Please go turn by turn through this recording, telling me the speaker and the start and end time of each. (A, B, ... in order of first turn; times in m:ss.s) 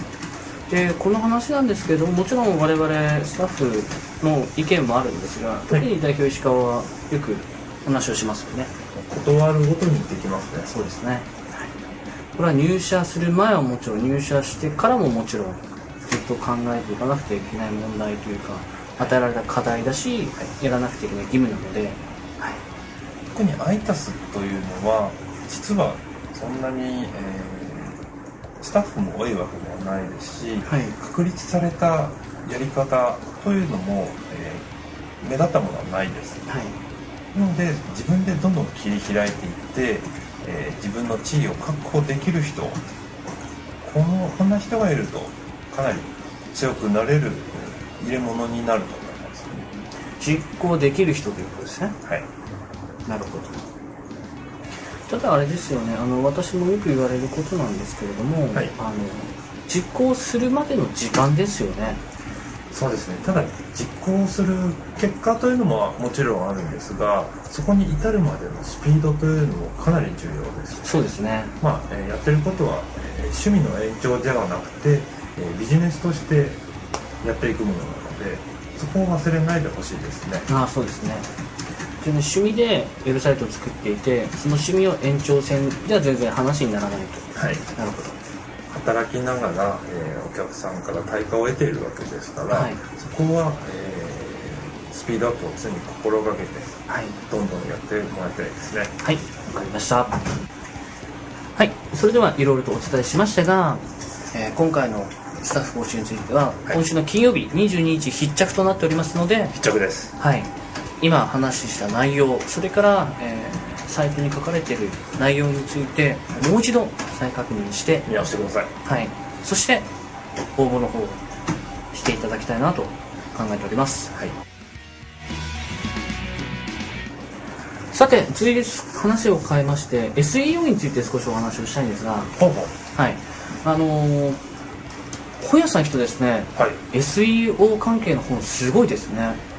0:00.7-0:08.7 A
0:08.9-0:10.7 B
0:10.7-0:11.7 A
0:12.4-0:22.6 A
0:23.3-0:28.0 B
0:28.6-0:34.6 B
0:30.6-0:31.0 A
0:35.2-0:36.4 B
0:36.5-0:36.8 A
0:37.3-0:42.8 B
0:43.8-0:49.7 B
0:50.2-0:52.0 A
0:53.1-0:53.6 A
0:55.1-1:02.0 A
1:02.7-1:11.0 B
1:10.8-1:11.6 A
1:11.6-1:16.6 B
1:17.2-1:20.5 B
1:20.5-1:21.3 A
1:22.0-1:28.2 A
1:27.4-1:27.6 B
1:28.7-1:36.7 B
1:32.5-1:32.8 A
1:36.9-1:37.2 A
1:37.3-1:38.9 B
1:39.0-1:40.2 A
1:41.6-1:49.5 A
1:49.6-1:50.2 B
1:50.2-1:50.5 A
1:51.0-1:58.1 A
1:58.1-1:58.7 B
1:58.8-1:59.9 A
2:00.6-2:01.2 A
2:01.9-2:04.1 A
2:07.9-2:12.4 A
2:12.4-2:12.7 B
2:12.9-2:14.4 A
2:15.4-2:19.4 A